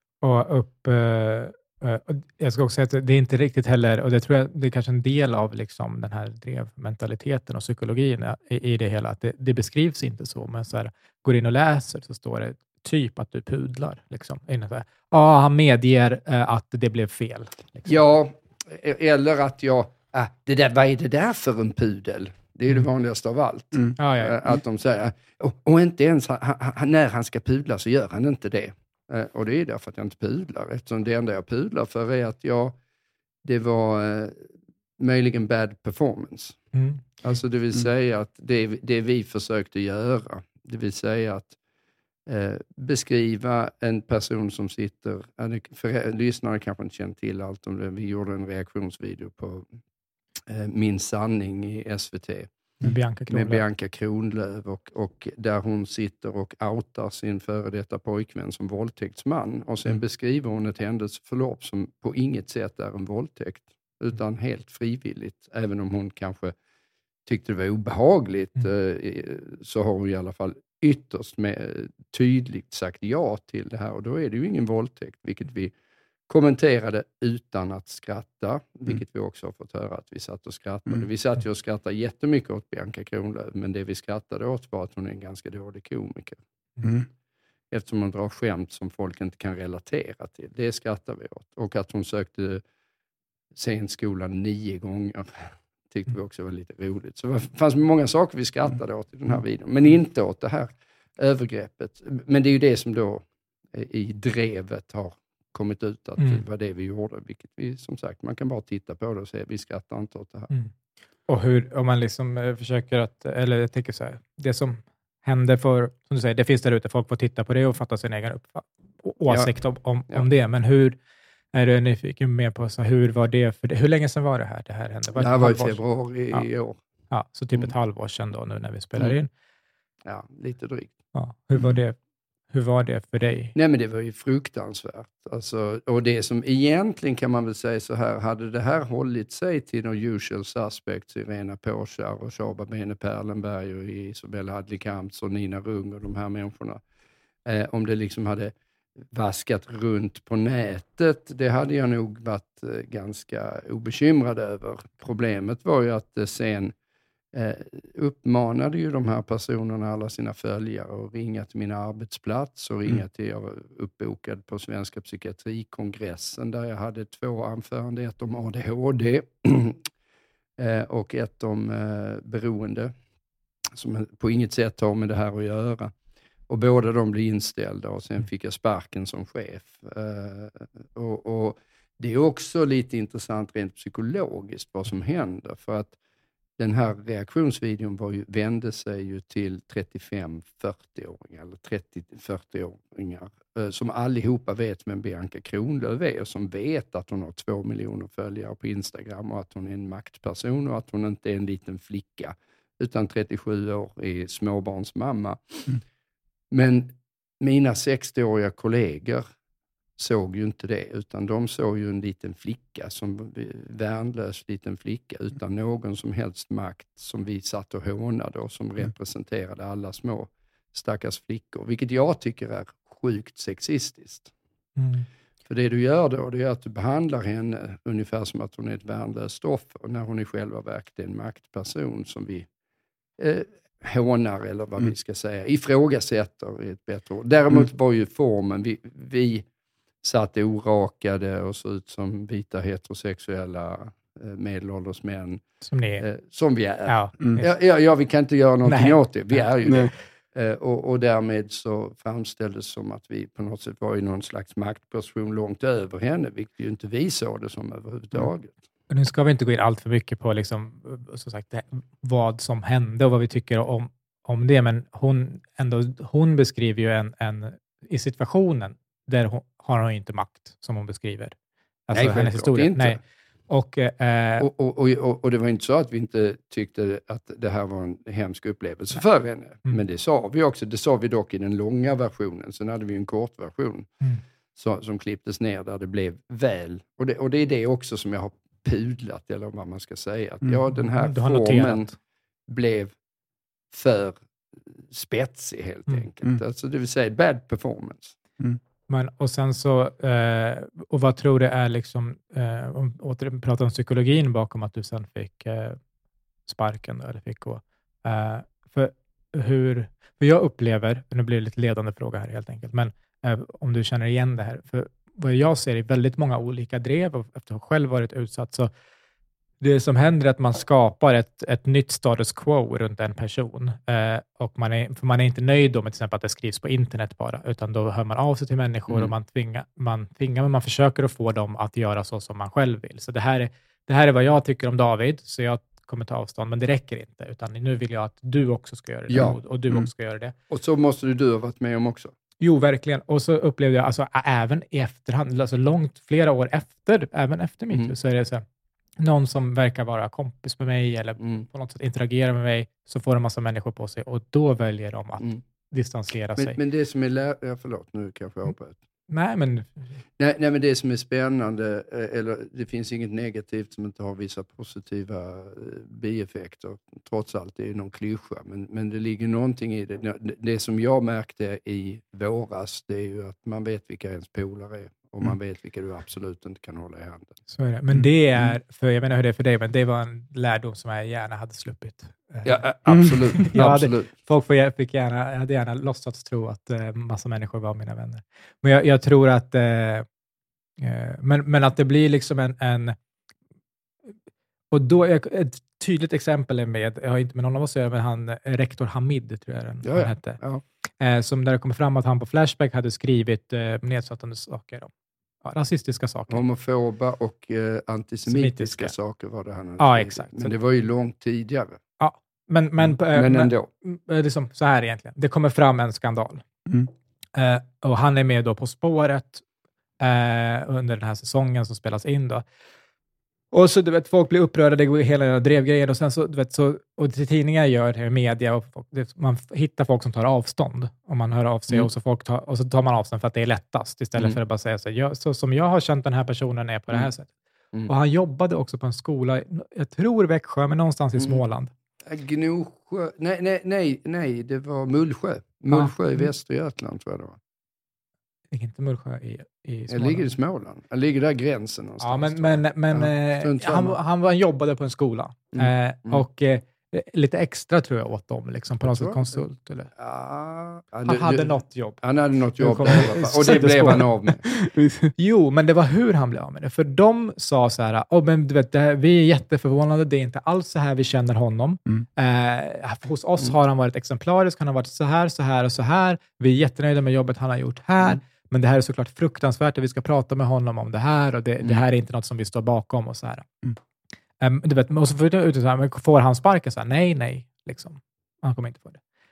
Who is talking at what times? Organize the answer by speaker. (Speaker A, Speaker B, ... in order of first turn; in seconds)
Speaker A: 0.2-18.0, 24.0-24.4, 36.7-37.0, 52.8-53.6, 106.2-106.4, 111.3-121.0, 121.5-125.8, 127.1-129.3, 131.1-132.0, 132.5-133.5, 224.8-225.1, 245.7-246.0, 246.9-247.5, 248.6-249.5, 258.9-271.4, 271.9-274.5, 290.8-291.9, 298.9-305.8, 306.4-318.7, 319.6-340.3, 342.4-348.4, 349.0-356.6, 359.1-360.0, 377.5-382.5, 383.3-390.1, 390.8-392.9, 394.7-400.4, 401.0-404.9, 405.4-406.4, 408.3-408.9, 409.8-410.5, 412.0-416.4, 417.3-419.4, 420.0-422.4, 423.5-437.3, 437.9-441.7, 448.5-450.3, 452.0-459.9, 461.1-462.0, 462.6-464.4, 465.2-483.6, 484.4-489.0
Speaker B: 17.9-32.8, 33.4-36.6, 37.2-41.6, 42.2-49.7, 50.5-52.5, 53.3-66.5, 67.2-75.7, 76.3-86.4, 87.7-92.6, 93.5-110.5, 125.2-126.8, 130.0-130.9, 133.5-146.8, 147.4-148.5, 149.1-156.7, 157.3-169.8, 170.6-172.9, 173.7-175.9, 176.5-186.0, 186.6-205.8, 206.5-209.2, 210.0-224.3, 225.4-232.5, 233.2-239.4, 240.0-245.4, 246.0-258.6, 271.9-273.0, 274.4-283.9, 284.6-291.9, 292.5-292.9, 293.7-298.1, 328.9-329.1, 339.1-339.4, 340.5-342.1, 351.2-351.5, 356.4-358.8, 360.2-377.4, 382.4-384.1, 399.8-400.6, 406.3-411.8, 412.9-413.7, 441.2-441.4, 442.1-447.4, 449.9-454.0, 455.5-456.2, 458.8-459.4, 459.9-464.4
Speaker C: 86.8-87.1, 249.7-249.9, 382.9-383.2, 463.5-465.1